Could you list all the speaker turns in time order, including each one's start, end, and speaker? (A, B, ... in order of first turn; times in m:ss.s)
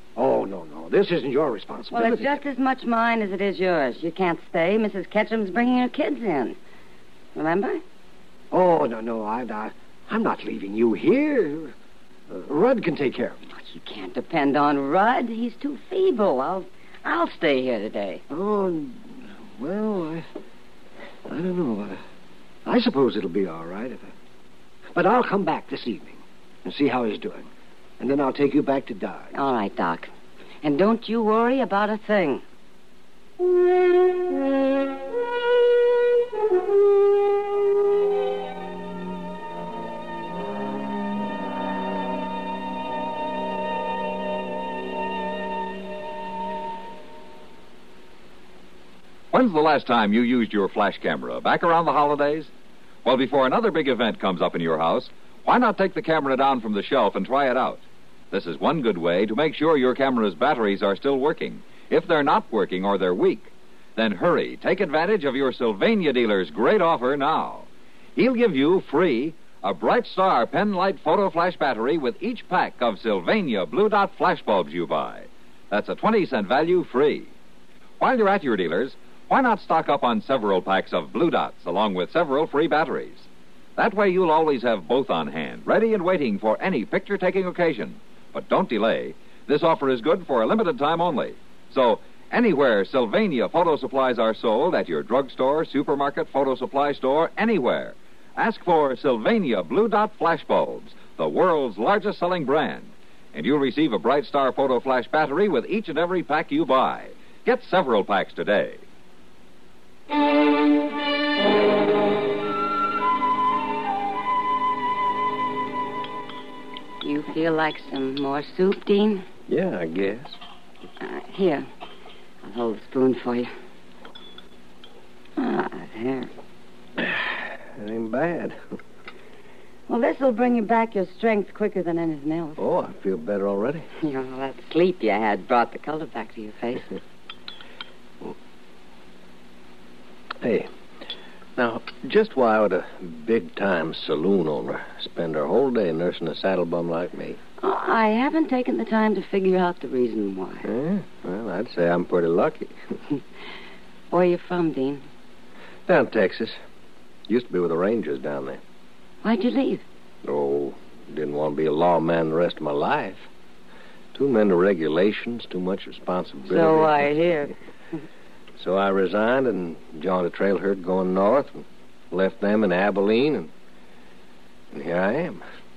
0:00.2-0:02.4 A
0:01.9-0:06.6 B
0:07.3-0:07.8 B
0:08.5-0:11.7 A
0:12.3-0:13.4 A
0:13.5-0:18.2 B
0:18.3-0:20.3 A
0:21.3-0:22.0 A
0:22.6-0:24.1 A
0:24.9-0:27.5 A
0:28.0-0:29.3 A
0:29.3-0:30.1 B
0:30.6-0:32.4 B
0:49.3-0:52.5 C
0:53.0-1:17.3 C
1:18.0-1:48.8 C
1:57.0-1:59.2 B
1:59.5-2:00.4 D
2:01.0-2:01.6 B
2:02.4-2:03.5 B
2:05.4-2:06.3 B
2:07.0-2:08.8 D
2:09.9-2:12.6 B
2:12.6-2:13.9 D
2:14.0-2:16.9 B
2:20.4-2:20.7 D
2:21.6-2:27.4 D
2:27.6-2:30.6 B
2:30.6-2:32.7 D
2:34.1-2:35.0 B
2:35.9-2:36.6 D
2:37.3-2:38.6 D
2:39.2-2:39.8 B
2:40.2-2:43.3 D
2:44.1-2:47.1 D
2:46.5-2:47.5 B
2:48.6-2:53.5 D
2:54.7-2:55.4 D